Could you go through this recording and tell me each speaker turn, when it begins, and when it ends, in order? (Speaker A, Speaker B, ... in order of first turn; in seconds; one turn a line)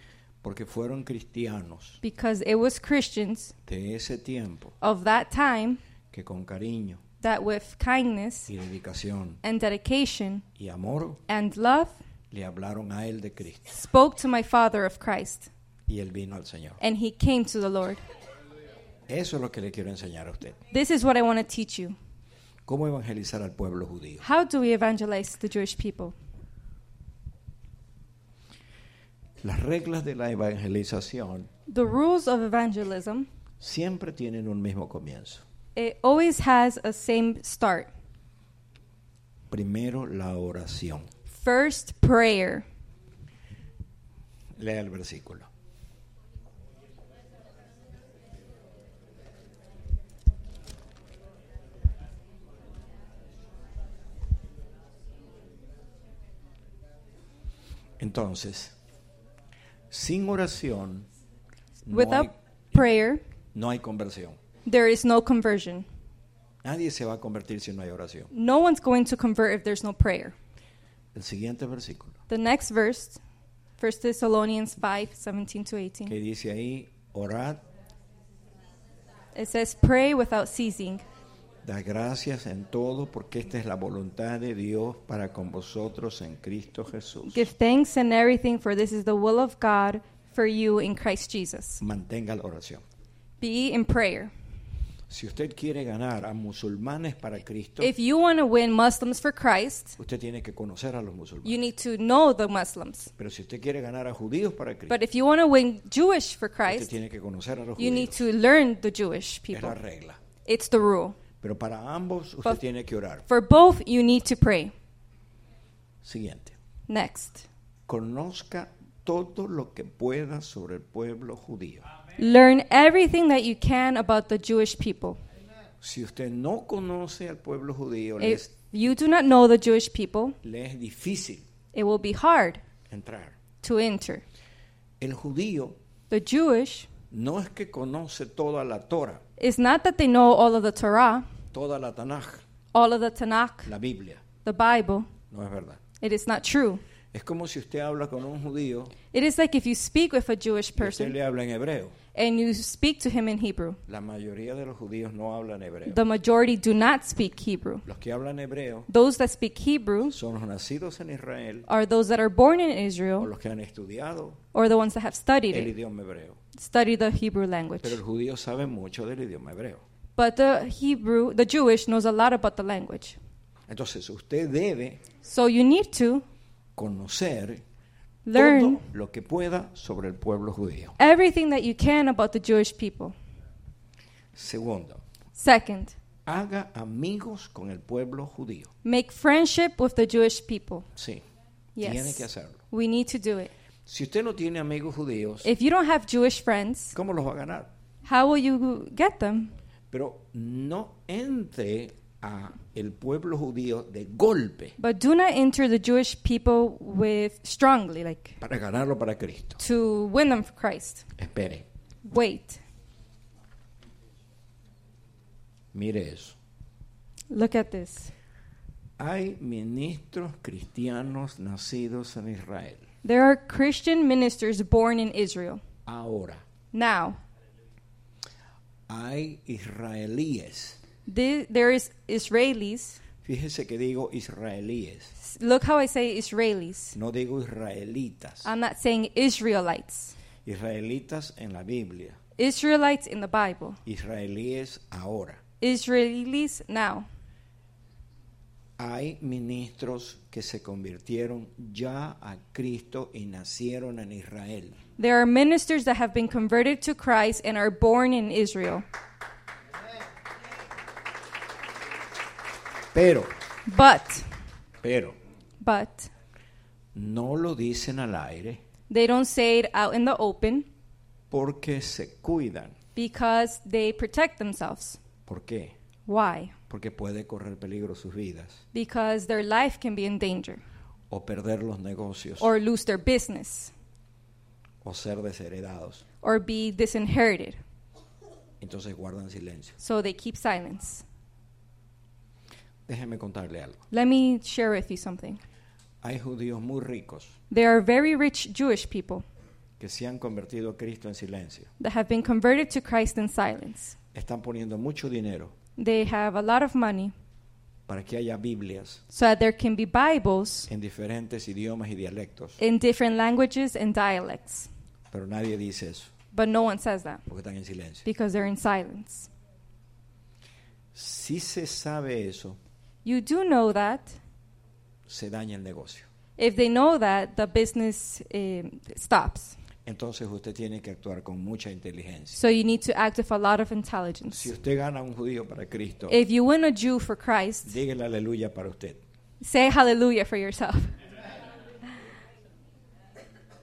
Speaker A: 0.4-2.0
Speaker B: 2.0-3.5
Speaker A: 3.6-4.8
Speaker B: 4.8-5.8
Speaker A: 6.1-7.0
Speaker B: 7.2-8.5
Speaker A: 8.5-9.4
Speaker B: 9.4-10.4
Speaker A: 10.6-11.2
Speaker B: 11.3-12.0
Speaker A: 12.3-13.8
Speaker B: 13.7-15.5
Speaker A: 15.9-16.8
Speaker B: 16.8-18.0
Speaker A: 19.1-20.6
Speaker B: 20.7-21.9
Speaker A: 22.6-24.2
Speaker B: 24.2-26.1
Speaker A: 29.4-31.5
Speaker B: 31.7-33.3
Speaker A: 33.6-35.4
Speaker B: 35.7-37.9
Speaker A: 39.5-41.1
Speaker B: 41.3-42.6
Speaker A: 44.5-45.5
Speaker A: 58.0-58.8
Speaker A: 59.9-61.1
Speaker A: 61.9-62.3
Speaker B: 61.9-63.2
Speaker A: 63.5-64.4
Speaker B: 64.7-65.8
Speaker A: 66.6-68.3
Speaker B: 68.3-70.3
Speaker A: 71.1-72.2
Speaker B: 72.3-73.2
Speaker B: 73.8-76.1
Speaker A: 76.1-77.6
Speaker B: 79.3-81.0
Speaker A: 81.6-87.5
Speaker B: 87.2-91.8
Speaker A: 91.8-92.8
Speaker B: 93.4-94.3
Speaker A: 95.1-97.9
Speaker B: 97.8-100.0
Speaker A: 100.0-101.6
Speaker B: 101.4-103.1
Speaker A: 103.2-105.0
Speaker B: 104.9-106.9
Speaker A: 106.7-108.2
Speaker B: 107.8-109.8
Speaker A: 109.5-110.2
Speaker B: 110.5-111.2
Speaker A: 111.4-113.2
Speaker B: 113.3-114.7
Speaker A: 116.0-116.5
Speaker B: 116.9-117.5
Speaker A: 117.9-121.8
Speaker B: 122.2-125.2
Speaker A: 125.8-128.5
Speaker B: 128.2-130.4
Speaker A: 130.4-131.4
Speaker B: 131.7-132.6
Speaker A: 132.9-133.3
Speaker B: 133.6-134.2
Speaker A: 135.0-135.8
Speaker B: 136.1-136.9
Speaker A: 137.1-139.2
Speaker B: 139.4-141.3
Speaker A: 141.5-142.4
Speaker B: 142.7-143.7
Speaker A: 143.7-144.2
Speaker B: 144.4-145.1
Speaker A: 145.3-145.8
Speaker B: 146.0-146.8
Speaker A: 147.1-148.9
Speaker B: 149.1-151.2
Speaker A: 150.8-151.9
Speaker B: 152.1-153.8
Speaker A: 153.9-156.0
Speaker B: 155.8-157.8
Speaker A: 157.8-158.9
Speaker B: 158.9-160.2
Speaker A: 160.1-161.7
Speaker B: 161.7-163.3
Speaker A: 163.2-164.4
Speaker B: 164.5-165.7
Speaker A: 165.5-166.4
Speaker B: 166.5-168.0
Speaker A: 167.8-169.8
Speaker B: 170.2-173.2
Speaker A: 173.7-175.0
Speaker B: 175.2-176.2
Speaker A: 176.8-177.6
Speaker B: 178.2-178.8
Speaker A: 178.3-180.9
Speaker B: 181.0-183.1
Speaker A: 184.3-185.0
Speaker B: 185.3-186.0
Speaker A: 186.2-188.7
Speaker B: 188.8-190.9
Speaker A: 190.9-191.2
Speaker B: 191.7-193.5
Speaker A: 191.8-192.6
Speaker A: 193.8-195.5
Speaker B: 195.4-196.9
Speaker A: 196.9-197.7
Speaker B: 198.0-199.5
Speaker A: 199.9-204.8
Speaker B: 204.8-208.4
Speaker A: 208.4-209.6
Speaker B: 209.6-211.1
Speaker A: 211.2-211.7
Speaker B: 212.0-212.6
Speaker A: 215.7-216.3
Speaker B: 217.3-218.1
Speaker A: 219.0-222.8
Speaker B: 223.0-225.6
Speaker A: 225.8-226.4
Speaker B: 226.7-227.2
Speaker A: 228.9-230.8
Speaker B: 231.1-233.0
Speaker A: 233.2-235.1
Speaker B: 235.2-237.0
Speaker A: 236.9-238.5
Speaker B: 238.4-240.2
Speaker A: 240.4-242.2
Speaker B: 242.4-243.8
Speaker A: 243.8-245.4
Speaker B: 245.6-247.1
Speaker A: 248.8-254.8
Speaker B: 255.0-258.8
Speaker A: 262.9-263.3
Speaker B: 263.7-264.3
Speaker A: 264.8-265.1
Speaker B: 265.6-266.1
Speaker A: 266.9-268.6
Speaker B: 268.9-270.7
Speaker A: 271.3-272.8
Speaker B: 272.9-275.0
Speaker A: 275.2-275.7
Speaker B: 276.1-276.6
Speaker A: 276.7-278.6
Speaker B: 278.7-280.6
Speaker A: 281.1-282.5
Speaker B: 282.4-283.7
Speaker A: 284.8-286.0
Speaker B: 286.2-287.6
Speaker A: 288.6-289.8
Speaker B: 289.8-291.0
Speaker A: 292.9-293.8
Speaker B: 293.9-295.4
Speaker A: 296.0-297.4
Speaker B: 297.5-299.2
Speaker A: 299.8-301.7
Speaker B: 301.8-303.9
Speaker A: 304.1-305.5
Speaker B: 305.8-307.1
Speaker A: 307.9-309.0
Speaker B: 309.1-310.7
Speaker A: 310.7-312.6
Speaker B: 312.6-314.7
Speaker A: 315.1-316.1
Speaker B: 316.3-317.2
Speaker A: 317.3-318.1
Speaker B: 318.1-319.3
Speaker A: 320.9-322.6
Speaker B: 323.0-324.2
Speaker A: 325.1-326.1
Speaker B: 326.4-329.6
Speaker A: 329.8-332.4
Speaker B: 332.3-334.5
Speaker A: 334.3-336.2
Speaker B: 336.1-337.8
Speaker A: 337.6-339.0
Speaker B: 339.4-340.9